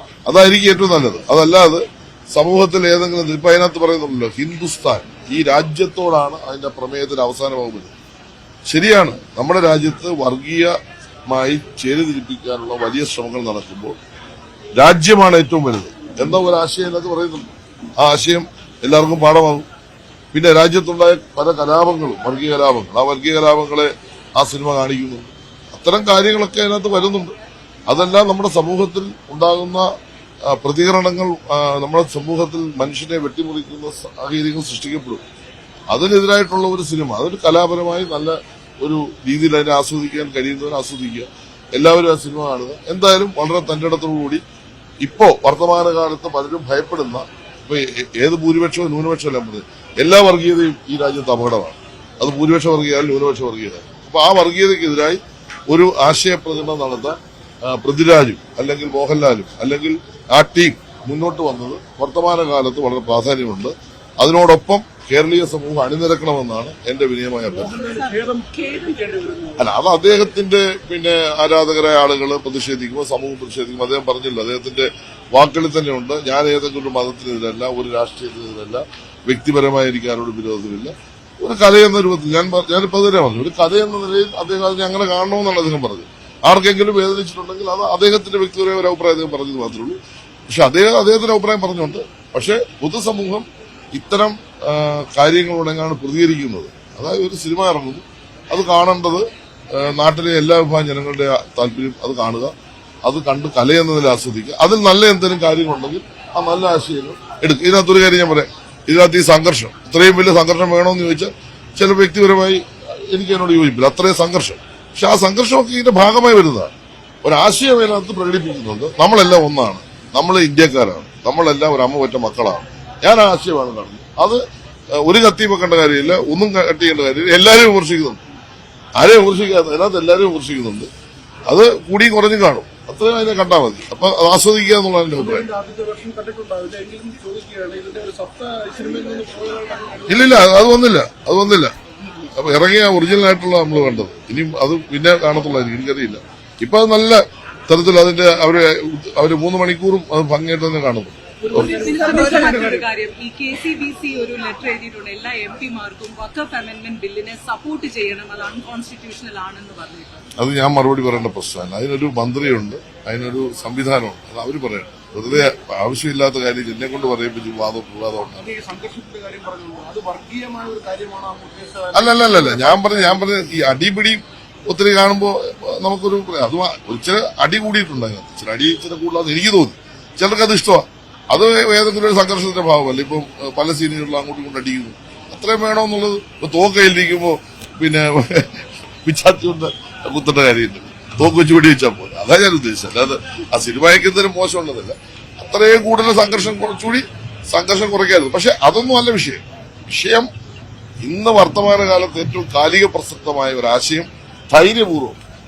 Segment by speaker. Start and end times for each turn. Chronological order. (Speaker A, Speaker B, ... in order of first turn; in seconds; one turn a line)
Speaker A: 0.3-7.9
Speaker A: 8.7-10.8
Speaker A: 11.3-14.0
Speaker A: 14.8-19.7
Speaker A: 20.3-27.4
Speaker A: 27.9-29.9
Speaker A: 30.4-35.2
Speaker A: 35.9-44.4
Speaker A: 45.0-67.8
Speaker B: 67.5-69.7
Speaker C: 67.8-69.1
Speaker A: 69.6-102.5
Speaker A: 103.0-116.7
Speaker A: 117.2-128.2
Speaker A: 129.0-130.9
Speaker A: 131.5-135.5
Speaker B: 135.2-140.6
Speaker A: 140.1-151.8
Speaker B: 151.4-152.9
Speaker C: 151.5-160.3
Speaker A: 160.4-168.5
Speaker B: 168.4-173.3
Speaker A: 171.9-200.3
Speaker A: 201.0-205.2